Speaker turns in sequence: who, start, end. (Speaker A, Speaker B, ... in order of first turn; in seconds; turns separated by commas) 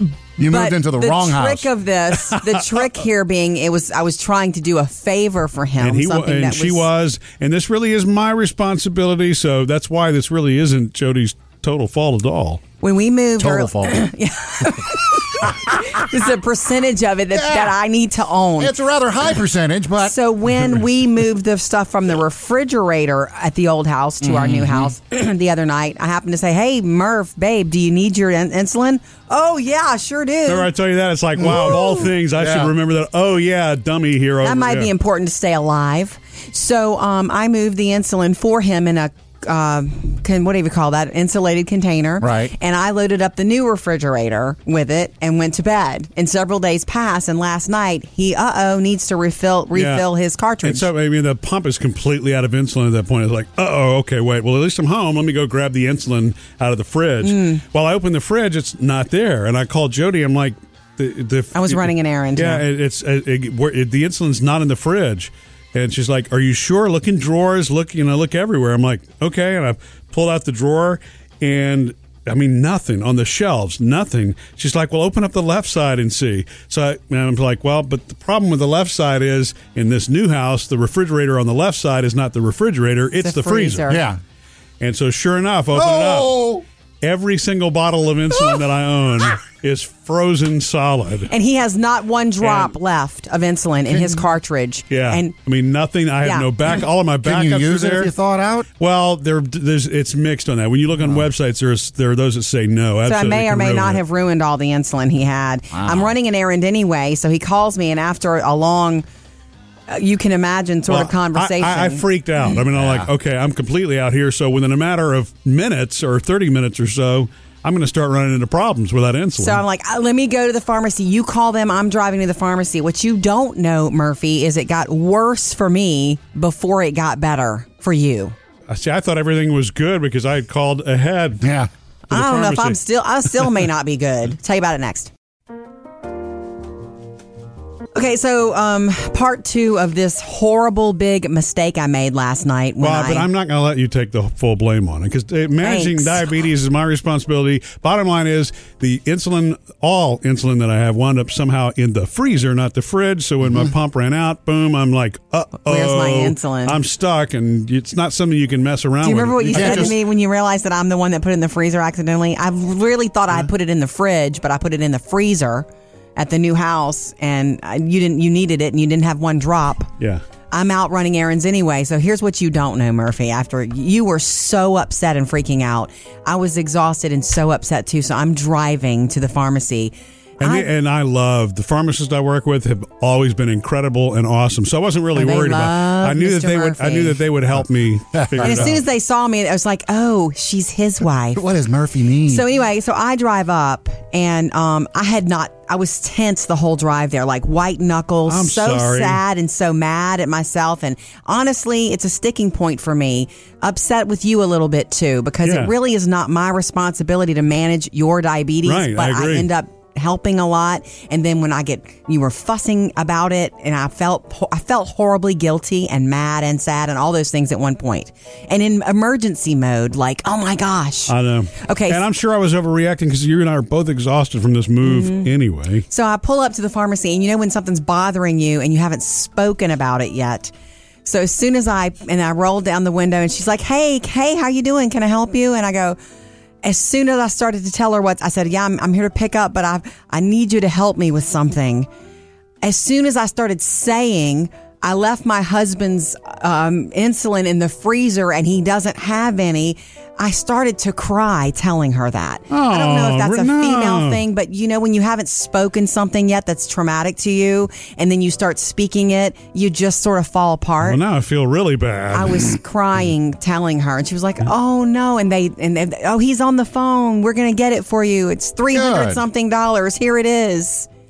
Speaker A: 0.4-1.7, Speaker B: 0.4-6.9, Speaker C: 5.8-12.6, Speaker B: 12.8-18.7, Speaker A: 13.4-14.1, Speaker A: 17.3-17.8, Speaker A: 18.6-20.7, Speaker B: 20.0-30.7, Speaker A: 24.2-24.9, Speaker C: 30.5-34.9, Speaker A: 31.4-32.7, Speaker B: 34.4-50.9, Speaker A: 42.2-42.5, Speaker C: 49.7-50.1, Speaker C: 50.6-83.9, Speaker B: 57.2-57.6, Speaker B: 61.5-62.6, Speaker B: 83.2-84.0, Speaker A: 83.9-84.2, Speaker C: 84.8-86.4, Speaker A: 85.7-86.7, Speaker C: 87.0-91.3, Speaker B: 91.3-95.3, Speaker C: 92.4-92.7, Speaker A: 93.9-94.2, Speaker C: 94.9-98.1, Speaker B: 96.2-96.5, Speaker A: 97.2-98.7, Speaker C: 98.8-104.0, Speaker B: 103.0-109.0, Speaker A: 105.7-106.1, Speaker B: 109.9-112.6, Speaker C: 110.9-119.6, Speaker A: 112.7-113.1, Speaker B: 119.4-128.3, Speaker C: 128.7-131.5, Speaker A: 131.4-131.7, Speaker B: 132.1-135.1, Speaker C: 132.1-132.8, Speaker B: 137.9-143.3, Speaker C: 142.8-160.0, Speaker B: 145.6-146.3, Speaker B: 155.7-156.8, Speaker B: 159.0-169.9, Speaker A: 159.5-160.0, Speaker B: 170.5-180.7, Speaker C: 180.4-188.8, Speaker B: 185.1-187.2, Speaker A: 188.1-188.8, Speaker B: 188.4-191.4, Speaker A: 191.3-192.5, Speaker B: 192.3-222.0, Speaker C: 198.3-199.2, Speaker C: 205.4-205.7, Speaker C: 208.6-209.5, Speaker C: 221.1-225.8, Speaker B: 224.8-225.3, Speaker B: 225.9-230.5, Speaker B: 231.1-236.0, Speaker B: 236.6-241.9, Speaker B: 242.6-261.0, Speaker C: 252.5-254.2, Speaker C: 260.8-262.6, Speaker B: 262.1-270.9, Speaker A: 268.7-269.2